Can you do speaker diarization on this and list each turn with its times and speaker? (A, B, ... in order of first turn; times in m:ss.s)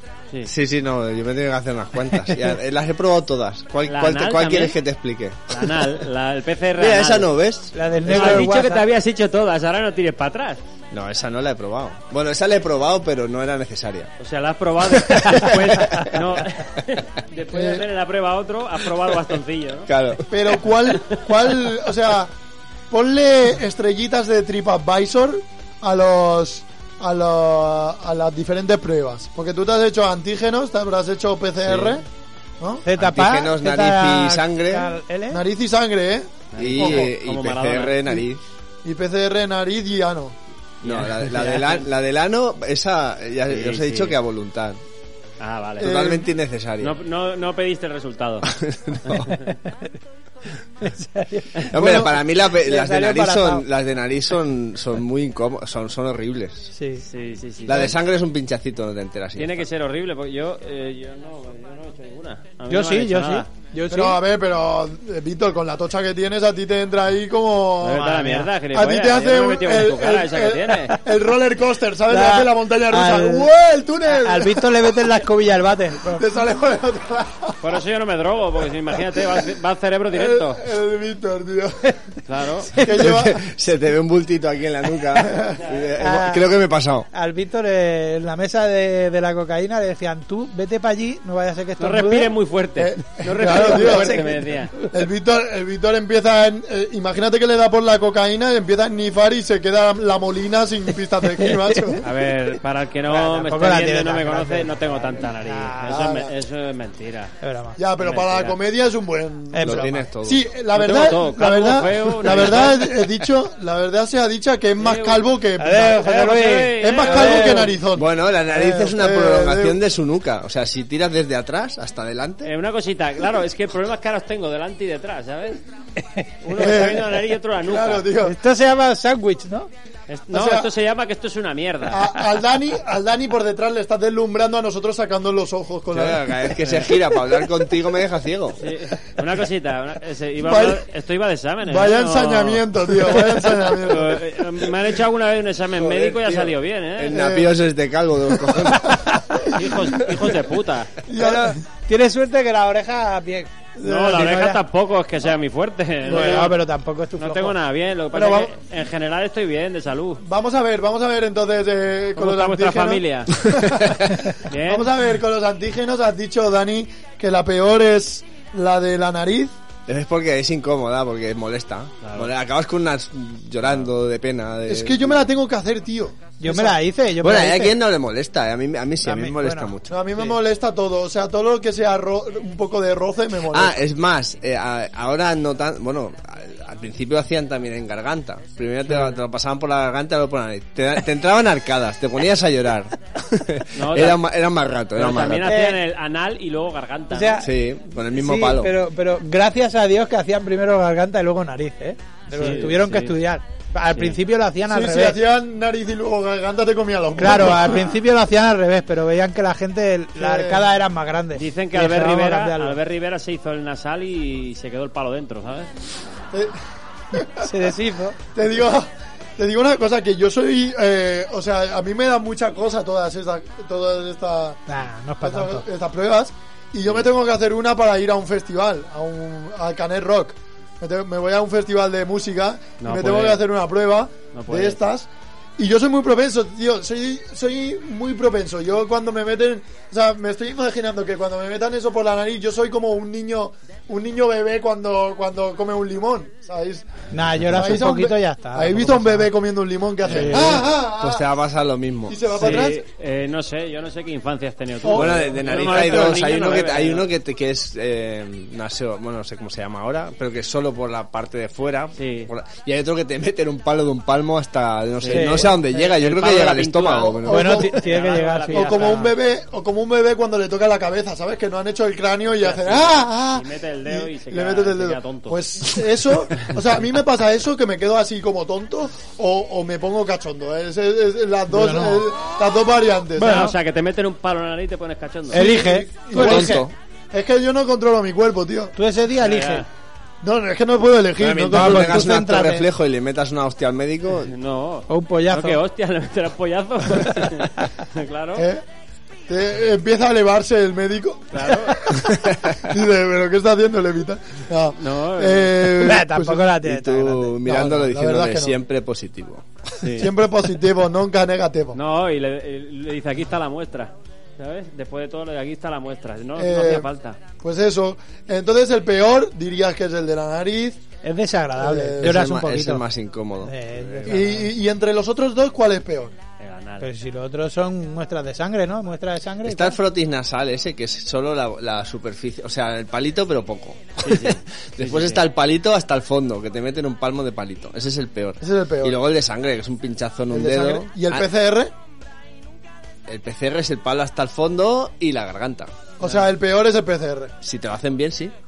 0:00.4-0:05.9 A
0:03.8-0:04.8 B
0:05.5-0:07.3 B
0:06.8-0:08.3 A
0:07.7-0:08.8 C
0:08.0-0:10.6 B
0:10.9-0:14.1 A
0:14.2-0:19.9 B
0:15.0-0:16.2 A
0:17.5-0:17.8 D
0:19.9-0:20.3 A
0:20.3-0:22.3 D
0:22.9-0:32.0 D
0:31.6-0:32.0 A
0:32.6-0:32.8 D
0:32.8-0:35.4 C
0:33.0-0:34.9 A
0:35.3-0:37.1 D
0:36.5-0:38.1 B
0:36.6-0:38.4 A
0:38.8-0:40.4 D
0:40.8-0:41.8 B
0:40.8-0:44.8 A
0:43.5-0:44.2 B
0:45.4-0:45.9 B
0:45.8-0:47.0 A
0:45.8-0:46.3 D
0:46.8-0:48.5 B
0:48.5-0:49.3 A
0:49.0-0:49.5 B
0:50.8-0:53.6 C
0:51.7-0:56.7 A
0:51.8-0:52.1 D
0:56.7-0:57.0 C
0:57.0-0:57.9 B
0:57.6-0:59.6 A
0:59.4-1:03.5 B
1:02.7-1:04.2 C
1:03.9-1:08.1 D
1:07.8-1:11.0 B
1:07.9-1:08.5 C
1:08.7-1:14.9 D
1:12.1-1:13.5 C
1:14.1-1:16.2 C
1:16.1-1:17.7 D
1:17.6-1:20.6 B
1:20.1-1:22.0 D
1:22.2-1:22.8 B
1:22.7-1:23.5 D
1:23.0-1:27.1 A
1:25.2-1:25.6 D
1:26.0-1:26.4 C
1:27.1-1:32.3 C
1:31.8-1:34.7 B
1:32.8-1:34.2 D
1:33.4-1:34.9 C
1:34.9-1:42.0 D
1:41.4-1:42.0 C
1:42.0-1:47.3 B
1:43.1-1:46.1 C
1:45.9-1:46.3 D
1:47.4-1:47.8 C
1:47.8-1:59.8 D
1:48.0-1:48.6 B
1:49.5-1:50.1 C
1:49.6-1:50.4 A
1:50.7-1:53.0 B
1:54.8-1:55.2 B
1:55.6-1:57.7 C
1:56.0-1:57.8 B
1:57.9-2:02.5 A
2:02.4-2:05.6 B
2:06.4-2:08.1 B
2:06.5-2:08.4 D
2:08.2-2:09.7 C
2:10.1-2:12.2 B
2:10.3-2:10.7 D
2:11.9-2:16.7 D
2:15.9-2:18.6 A
2:16.6-2:16.9 B
2:18.6-2:27.2 B
2:20.4-2:20.8 D
2:21.6-2:24.2 D
2:25.8-2:29.0 A
2:27.1-2:27.6 D
2:29.3-2:29.7 D
2:29.5-2:30.9 B
2:31.0-2:31.6 D
2:31.2-2:34.6 C
2:33.8-2:34.3 D
2:33.8-2:36.6 B
2:36.0-2:36.6 D
2:36.1-2:37.5 C
2:37.2-2:40.2 B
2:38.1-2:38.5 D
2:40.2-2:49.5 D
2:42.2-2:43.4 B
2:44.4-2:44.9 B
2:49.9-2:55.2 A
2:52.0-2:52.3 B
2:54.6-2:56.8 D
2:56.4-2:57.8 C
2:57.2-2:59.9 A
2:59.0-2:59.7 C
2:59.9-3:03.8 D
3:03.5-3:15.5 A
3:08.9-3:09.1 C
3:13.7-3:14.2 B
3:15.0-3:17.4 B
3:15.4-3:15.8 C
3:17.1-3:17.5 C
3:17.4-3:18.7 A
3:18.1-3:25.2 C
3:22.3-3:23.2 B
3:24.7-3:27.9 D
3:27.2-3:32.8 C
3:30.2-3:30.6 D
3:31.3-3:35.7 B
3:37.1-3:37.5 D
3:37.4-3:38.2 C
3:38.3-3:44.6 D
3:44.7-3:45.6 C
3:45.2-4:06.8 D
3:52.8-3:53.5 B
3:54.3-3:54.8 B
4:07.1-4:09.3 C
4:07.5-4:11.2 D
4:10.0-4:10.5 B
4:10.1-4:10.6 C
4:10.3-4:12.5 A
4:12.1-4:12.8 D
4:12.3-4:17.1 B
4:14.8-4:15.8 D
4:14.9-4:27.6 A
4:22.0-4:22.3 B
4:25.0-4:29.1 B
4:25.1-4:25.8 C
4:27.1-4:27.8 D
4:27.3-4:29.1 C
4:28.5-4:43.5 D
4:32.4-4:35.7 B
4:41.5-4:42.0 C
4:43.2-4:43.5 C
4:43.2-4:45.4 B
4:45.3-4:46.6 C
4:45.3-4:48.7 D
4:46.1-4:46.7 A
4:48.8-4:49.6 C
4:49.2-4:49.7 B
4:50.2-4:52.1 D
4:51.2-4:54.3 A
4:51.5-4:52.7 C
4:54.3-4:58.5 B
4:54.9-4:55.6 C
4:58.4-4:58.6 D
4:59.3-5:06.6 D
5:01.3-5:01.9 B
5:02.2-5:02.5 A
5:04.8-5:05.8 B
5:05.8-5:07.4 C
5:06.6-5:09.8 A
5:07.4-5:08.6 D
5:09.8-5:10.1 B
5:10.0-5:11.8 D
5:11.7-5:17.2 B
5:16.4-5:16.9 D
5:17.4-5:20.8 D
5:21.0-5:22.8 C
5:21.6-5:22.2 D
5:22.0-5:24.2 A
5:23.4-5:24.5 C
5:24.1-5:26.1 D
5:26.4-5:26.8 B
5:26.8-5:29.8 C
5:29.4-5:41.2 A
5:34.0-5:35.2 B
5:38.4-5:39.0 D
5:40.3-5:41.7 D
5:43.1-5:45.7 A
5:46.0-5:47.3 D
5:47.4-5:48.3 A